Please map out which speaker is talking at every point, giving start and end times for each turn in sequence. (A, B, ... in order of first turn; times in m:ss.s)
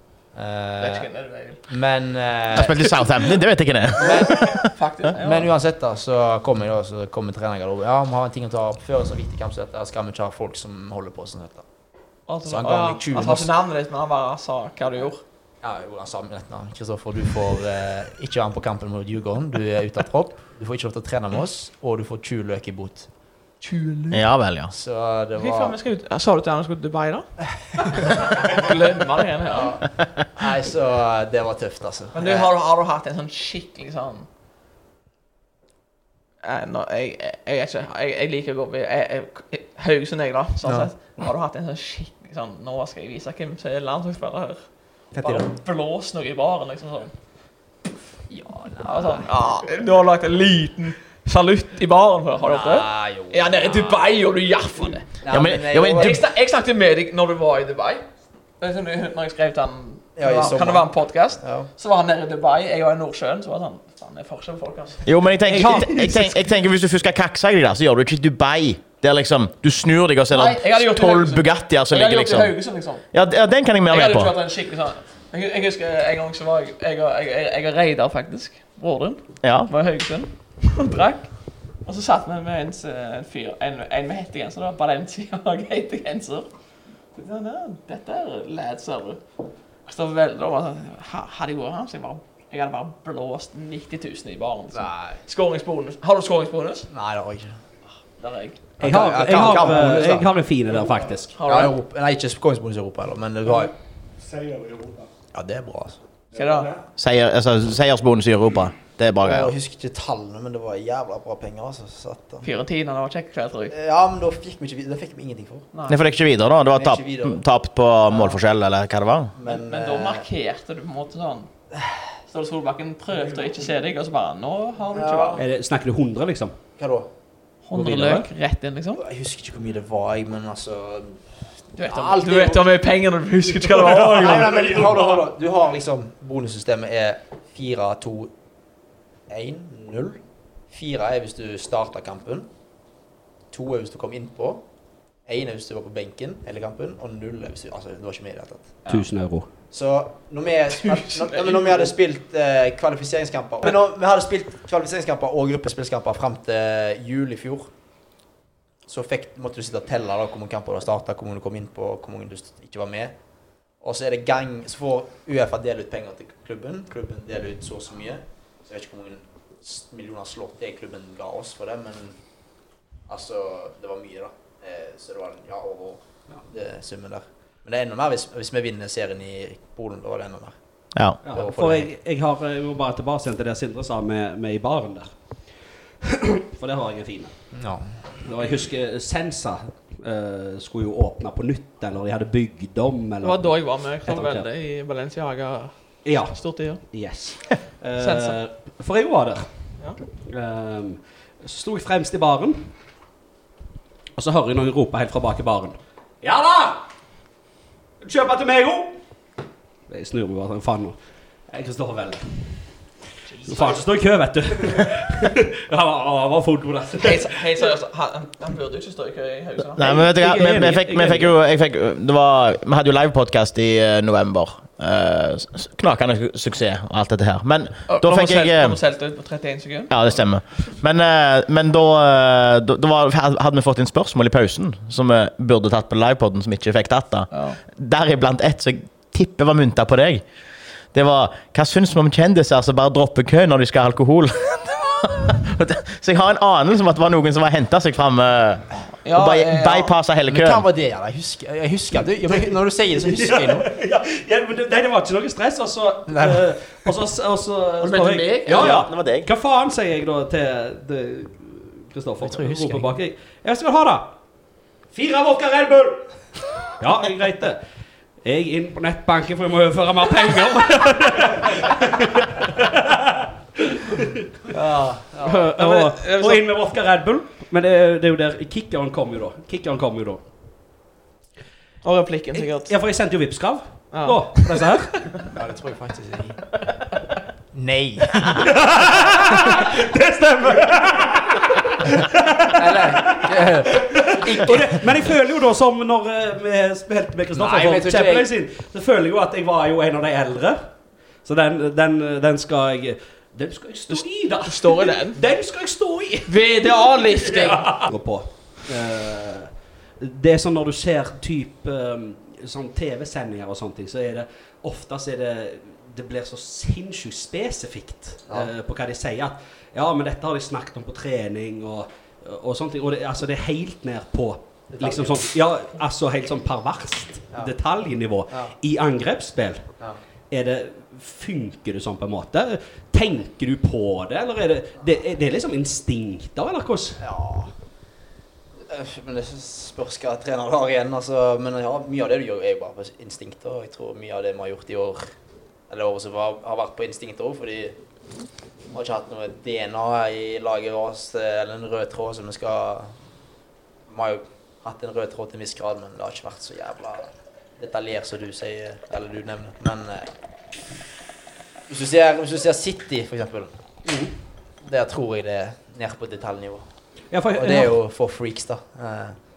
0:00.3-0:01.1 A
0:00.8-0:01.6 B
0:01.7-0:03.0 A
0:02.5-0:04.7 C
0:04.0-0:11.6 A
0:04.0-0:05.5 B
0:12.3-0:15.2 B
0:12.5-0:13.5 A
0:15.6-0:23.1 A
0:23.6-0:24.2 A
0:24.1-0:24.7 C
0:24.7-0:25.8 A
0:25.4-0:27.3 B
0:27.8-0:28.4 A
0:27.9-0:29.8 B
0:29.5-0:32.5 A
0:32.1-0:34.3 B
0:36.4-0:47.1 B
0:40.6-0:40.9 A
0:45.1-0:45.5 A
0:48.3-0:49.3 A
0:48.8-0:55.1 B
0:52.4-0:54.0 A
0:55.2-0:56.2 A
0:55.3-0:56.2 C
0:56.0-0:58.1 B
0:58.6-1:06.0 B
1:00.2-1:01.7 A
1:05.0-1:12.6 C
1:05.4-1:06.4 D
1:10.3-1:13.0 B
1:13.1-1:14.4 C
1:13.9-1:26.5 B
1:19.4-1:19.7 C
1:27.2-1:29.2 B
1:29.9-1:36.9 B
1:34.7-1:35.2 A
1:36.9-1:37.6 A
1:38.2-1:38.6 B
1:38.8-1:40.3 A
1:38.8-1:41.4 D
1:41.4-1:41.8 B
1:41.4-1:43.7 A
1:44.2-1:45.1 E
1:45.3-1:46.0 A
1:46.3-1:46.9 E
1:46.3-1:46.7 B
1:47.0-1:49.5 C
1:49.2-1:52.5 A
1:52.4-1:53.7 B
1:53.7-1:55.7 A
1:55.7-1:56.0 B
1:55.9-1:59.3 C
1:56.8-1:57.4 A
1:58.1-1:58.4 B
1:59.3-2:00.3 A
1:59.4-2:01.5 B
2:02.3-2:05.4 B
2:04.9-2:05.4 A
2:05.4-2:06.6 D
2:06.8-2:07.1 A
2:07.6-2:09.0 B
2:07.7-2:08.3 D
2:09.0-2:11.2 A
2:11.7-2:15.2 B
2:11.8-2:12.7 A
2:13.7-2:15.1 E
2:14.0-2:18.3 A
2:19.3-2:22.5 A
2:23.5-2:24.6 A
2:25.3-2:28.8 A
2:28.9-2:29.5 D
2:29.7-2:37.7 A
2:30.8-2:31.9 B
2:38.9-2:43.2 A
2:43.8-2:52.2 A
2:53.1-3:00.6 A
3:01.2-3:05.5 D
3:01.2-3:01.9 A
3:06.0-3:07.3 D
3:07.5-3:07.8 A
3:08.2-3:14.5 D
3:13.2-3:16.8 B
3:16.0-3:22.8 D
3:18.0-3:18.4 B
3:24.2-3:26.9 D
3:28.0-3:29.0 D
3:29.9-3:31.0 D
3:31.5-3:32.8 D
3:33.3-3:33.8 B
3:33.4-3:37.4 D
3:37.0-3:41.3 B
3:39.8-3:41.3 D
3:39.8-3:48.8 C
3:47.9-3:50.2 B
3:49.9-4:00.2 C
3:57.3-3:57.6 B
4:00.9-4:10.6 C
4:09.0-4:10.0 B
4:10.3-4:13.7 A
4:12.2-4:24.2 D
4:16.1-4:16.5 A
4:17.8-4:18.8 B
4:18.5-4:19.3 C
4:22.2-4:23.0 A
4:24.9-4:27.6 D
4:28.2-4:34.1 D
4:34.5-4:35.5 A
4:35.2-4:36.4 B
4:35.2-4:40.2 D
4:41.8-4:42.8 B
4:42.3-4:45.1 D
4:43.9-4:45.2 B
4:45.3-4:46.6 A
4:47.5-4:48.5 A
4:48.6-5:06.3 D
4:52.5-4:54.9 A
4:57.3-4:58.3 A
5:03.9-5:05.2 B
5:06.3-5:07.7 B
5:07.2-5:29.7 D
5:24.7-5:25.2 A
5:30.3-5:37.1 D
5:37.0-5:37.5 A
5:38.6-5:45.1 A
5:45.7-5:47.8 A
5:48.7-5:53.0 A
5:53.9-6:00.1 A
6:01.7-6:03.5 A
6:03.8-6:04.1 D
6:04.6-6:06.6 A
6:07.1-6:07.8 D
6:07.4-6:09.2 A